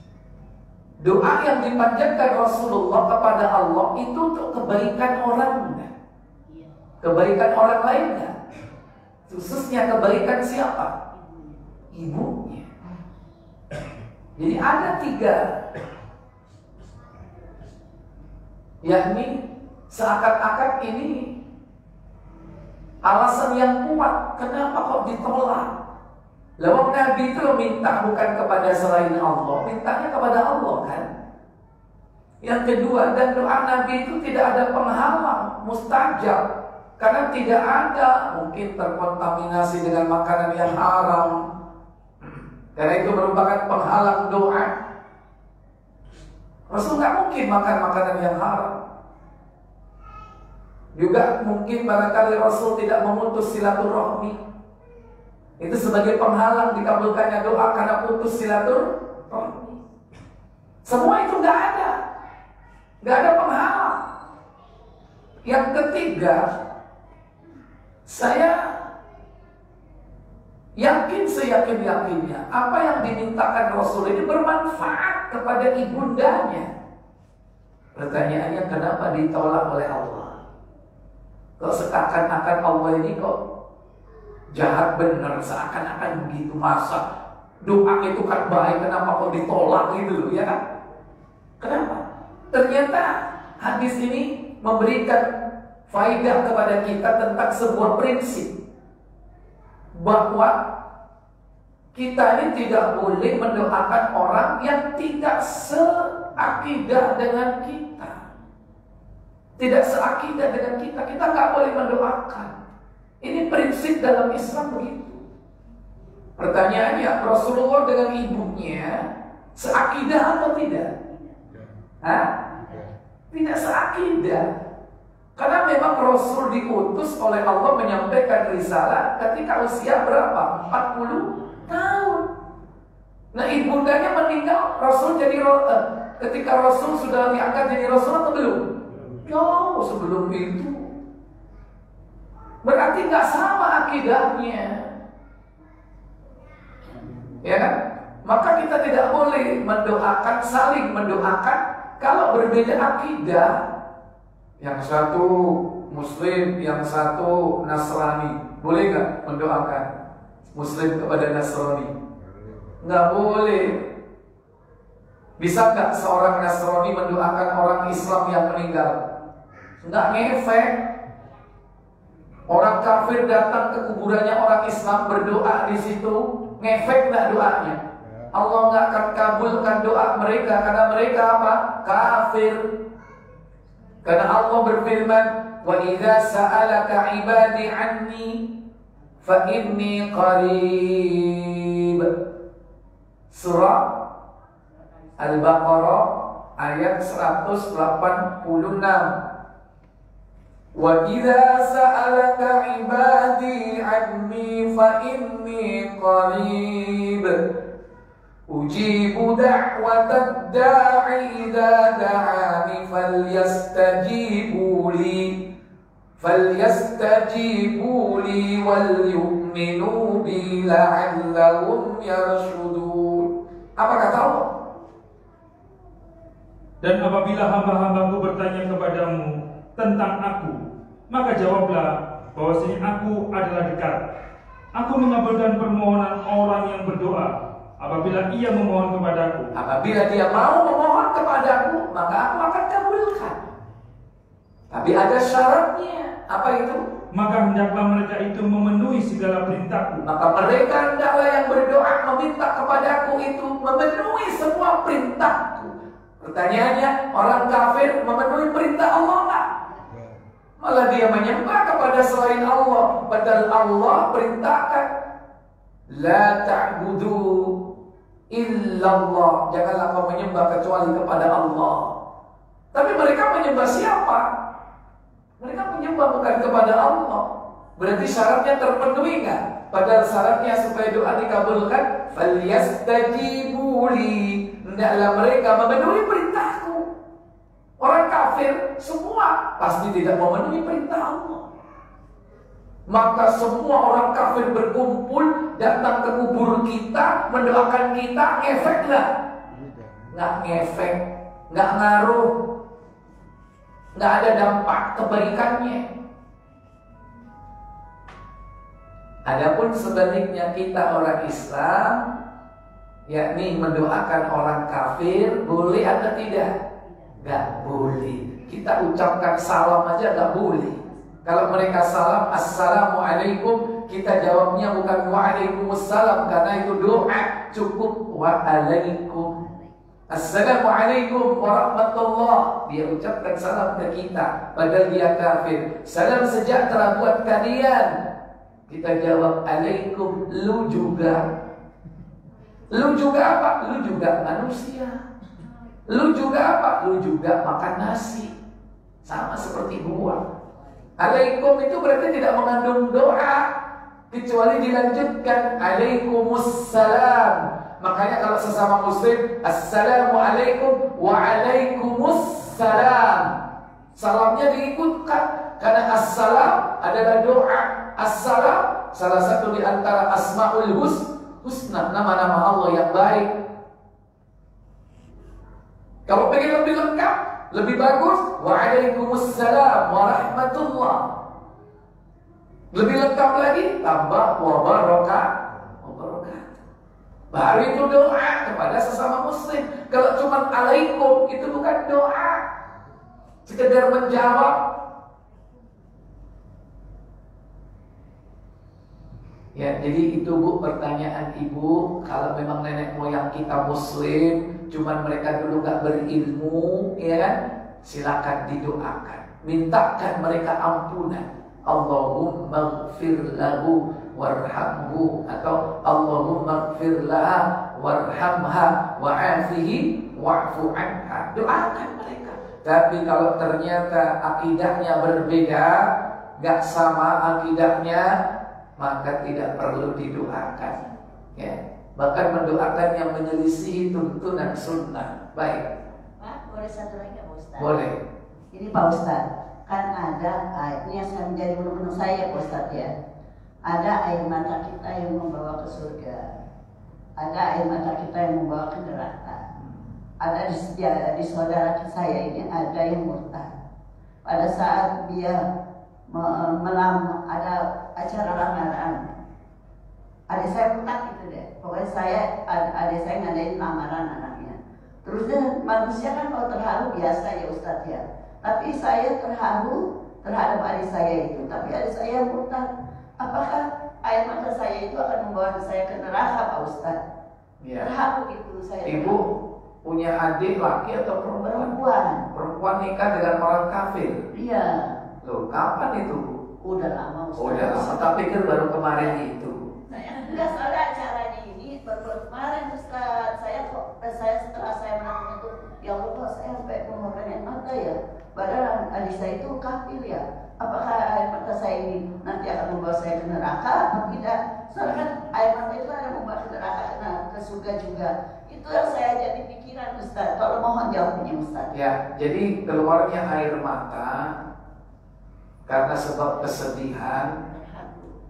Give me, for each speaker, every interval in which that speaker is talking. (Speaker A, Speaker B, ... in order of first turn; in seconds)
Speaker A: 1.0-5.9, 7.0-8.3, 9.3-10.9, 11.9-12.7, 14.4-15.4, 18.8-21.3, 23.0-25.7, 26.6-31.1, 32.4-36.4, 37.0-41.4, 42.2-44.7, 46.7-48.8, 50.9-54.4, 55.6-59.7, 60.8-62.0, 63.0-64.0, 65.4-66.5, 68.1-68.8, 70.8-76.7, 78.0-80.4, 81.6-83.3, 84.5-87.0, 87.6-90.6, 91.6-95.3, 95.9-98.5, 99.9-100.6, 101.9-108.2, 109.6-112.5, 113.2-115.2, 116.4-120.9, 122.0-122.3, 123.3-124.5, 125.3-132.2, 133.3-138.6, 139.2-140.9, 142.6-144.8, 147.4-153.6, 154.6-159.9, 160.5-161.9, 162.8-163.8, 165.4-169.0, 169.8-170.8, 172.5-177.8, 178.3-182.6, 184.0-188.4, 189.2-192.1, 193.3-193.8, 195.2-199.1, 200.8-207.4, 208.5-215.4, 216.2-224.5, 239.5-243.4, 244.7-246.8, 250.0-259.4, 260.6-264.9, 265.9-267.6, 268.3-271.9, 272.7-274.3, 275.4-277.2, 277.8-286.8, 287.8-291.4, 292.9-299.1, 300.1-302.3, 303.9-305.9, 309.2-312.0, 313.1-316.5, 317.2-329.3, 330.1-337.9, 338.7-341.3, 342.7-345.0, 345.9-348.3, 349.0-350.2, 351.0-353.5, 354.1-363.3, 363.9-373.3, 376.1-381.1, 382.7-385.3, 385.8-386.5, 387.3-392.4, 393.4-394.6, 399.5-428.1, 428.8-430.8, 431.4-435.7, 437.6-438.0, 477.6-477.9, 478.8-481.8, 482.3-484.2, 485.2-486.4, 487.4-489.7, 511.7-514.3, 515.7-517.3
Speaker B: 226.8-234.0, 234.7-239.5, 247.1-250.0
Speaker C: 436.2-437.8, 438.5-442.9, 443.7-446.3, 447.2-449.4, 450.2-453.5, 454.2-455.4, 456.1-459.0, 460.3-472.7, 473.2-477.0, 477.8-479.2, 481.4-482.3, 484.3-485.0, 486.6-488.2, 489.9-511.7, 517.5-518.2